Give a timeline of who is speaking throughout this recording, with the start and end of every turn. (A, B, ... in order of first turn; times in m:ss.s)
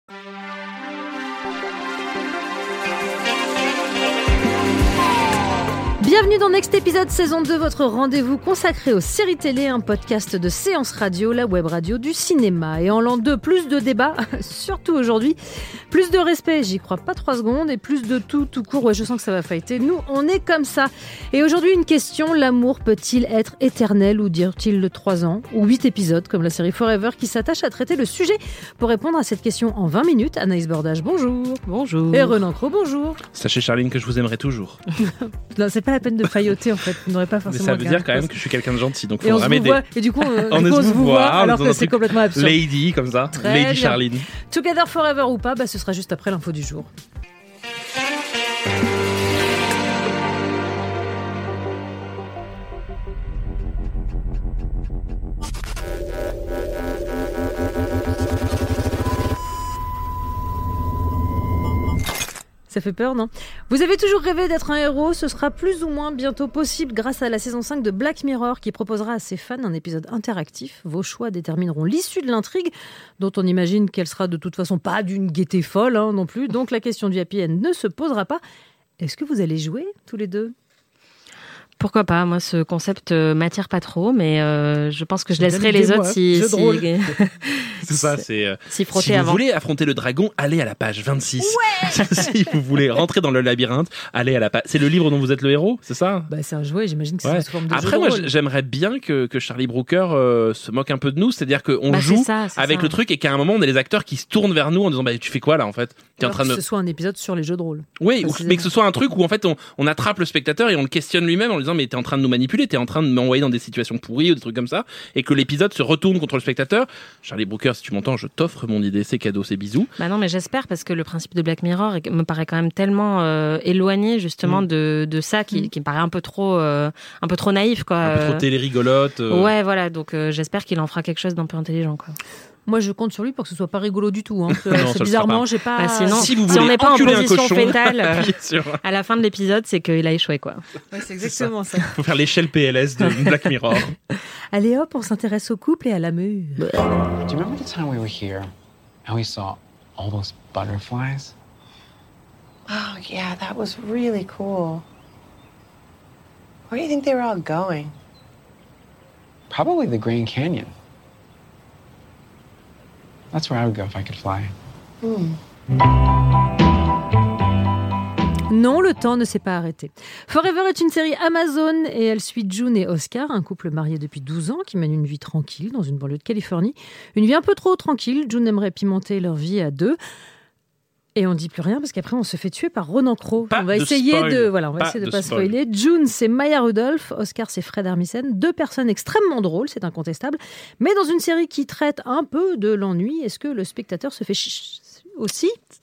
0:06.0-0:15.4 A
0:15.9-0:33.2 A
0:31.7-0:32.4 B
0:33.4-0:34.8 C
0:35.0-0:38.4 A
0:37.5-0:44.3 C
0:39.2-0:42.6 A
0:43.3-0:46.9 A
1:02.7-1:18.4 A
1:19.0-1:20.5 A
1:21.8-1:29.4 B
1:25.4-1:26.9 A
1:27.8-1:36.3 C
1:31.4-1:32.4 A
1:36.3-1:38.3 A
1:37.2-1:46.6 C
1:41.9-1:43.0 B
1:46.2-1:48.7 A
1:48.0-1:59.9 C
2:00.0-2:08.4 B
2:08.0-2:09.5 C
2:09.3-2:12.2 B
2:12.7-2:17.3 A
2:14.6-2:15.5 C
2:15.8-2:20.6 B
2:16.1-2:18.8 C
2:20.9-2:21.9 A
2:21.2-2:23.9 C
2:24.5-2:26.8 A
2:27.2-2:28.5 D
2:29.0-2:31.4 D
2:32.7-2:34.8 E
2:36.7-2:38.0 E
2:39.5-2:40.7 D
2:43.3-2:44.5 D
2:45.0-2:45.4 E
2:48.5-3:00.0 A
3:01.2-3:15.6 A
3:03.5-3:05.5 C